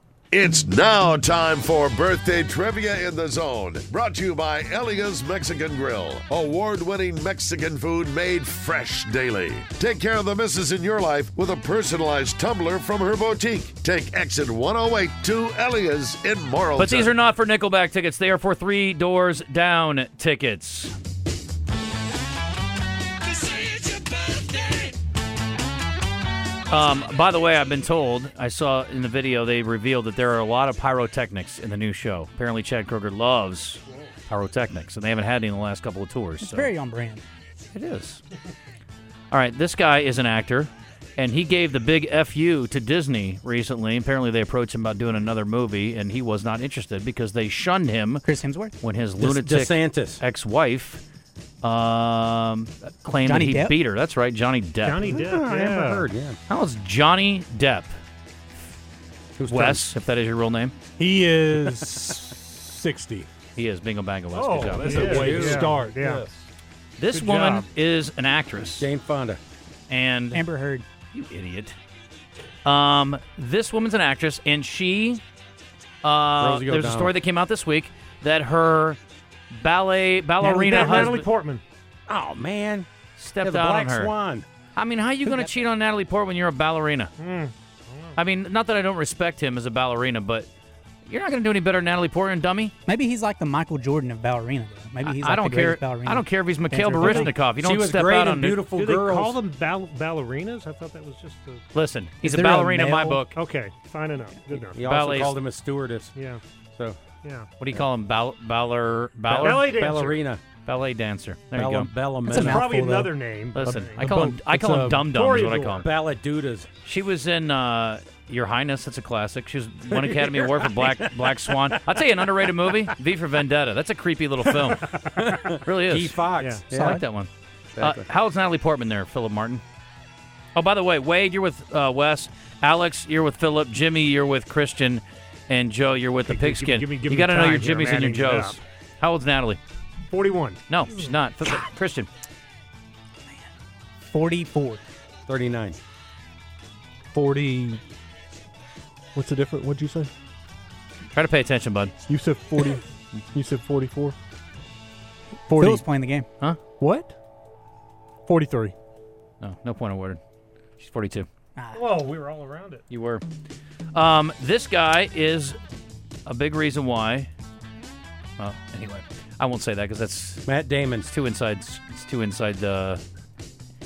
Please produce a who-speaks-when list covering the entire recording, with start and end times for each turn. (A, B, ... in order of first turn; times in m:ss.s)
0:00.3-0:17.1 A
0:16.8-0:20.9 B
0:26.7-0:36.7 B
0:36.4-0:37.2 C
0:37.7-0:38.2 B
0:39.3-0:48.3 B
0:48.2-0:48.7 C
0:48.8-0:51.0 B
0:49.2-0:50.2 D
0:51.6-0:55.2 B
0:53.2-0:53.8 C
0:54.8-0:56.0 E
0:55.0-0:56.4 D
0:56.5-0:58.0 B
0:59.4-0:59.9 D
0:59.5-1:00.7 B
1:01.0-1:03.3 F
1:03.5-1:05.5 B
1:04.3-1:06.2 E
1:04.6-1:06.4 F
1:04.9-1:05.7 D
1:07.0-1:08.9 B
1:07.1-1:07.7 E
1:08.7-1:09.4 D
1:09.9-1:10.4 B
1:10.3-1:10.8 C
1:11.1-1:11.8 B
1:12.6-1:15.2 B
1:16.0-1:19.0 B
1:16.4-1:17.1 D
1:19.5-1:21.3 B
1:20.5-1:21.6 E
1:22.1-1:22.9 D
1:23.2-1:24.1 B
1:23.4-1:24.4 D
1:24.8-1:27.1 B
1:25.2-1:25.6 C
1:27.2-1:28.1 E
1:28.2-1:30.5 B
1:31.1-1:32.7 B
1:32.8-1:37.4 C
1:35.0-1:38.6 B
1:37.5-1:39.4 D
1:38.7-1:41.6 E
1:41.7-1:43.4 B
1:42.2-1:43.3 D
1:43.3-1:44.8 E
1:44.5-1:46.1 D
1:44.8-1:45.4 B
1:46.1-1:46.4 E
1:47.2-1:47.5 E
1:47.6-1:49.7 B
1:49.2-1:50.4 D
1:49.4-1:50.2 E
1:50.6-1:51.9 B
1:51.5-1:52.7 D
1:52.2-1:53.1 C
1:52.3-1:54.2 E
1:53.5-1:55.8 B
1:53.6-1:55.1 F
1:55.0-1:55.9 E
1:55.8-1:56.7 D
1:56.8-2:05.0 B
1:59.9-2:02.1 D
2:04.9-2:05.3 E
2:05.2-2:07.0 D
2:05.5-2:06.2 B
2:06.4-2:06.6 E
2:06.7-2:09.6 B
2:07.8-2:08.1 D
2:10.5-2:19.6 B
2:16.2-2:18.6 E
2:20.1-2:21.1 E
2:20.7-2:22.1 B
2:24.1-2:24.8 C
2:25.3-2:25.8 D
2:27.2-2:27.8 C
2:29.1-2:30.1 F
2:31.1-2:31.9 B
2:32.1-2:34.2 F
2:35.5-2:35.8 F
2:35.5-2:36.3 C
2:36.8-2:37.1 F
2:38.3-2:38.7 F
2:39.4-2:40.2 B
2:40.8-2:41.3 B
2:41.6-2:41.9 C
2:41.7-2:42.8 E
2:42.9-2:43.2 B
2:43.9-2:45.6 B
2:46.2-2:47.3 B
2:48.4-2:50.4 B
2:50.4-2:51.1 D
2:51.1-2:53.0 B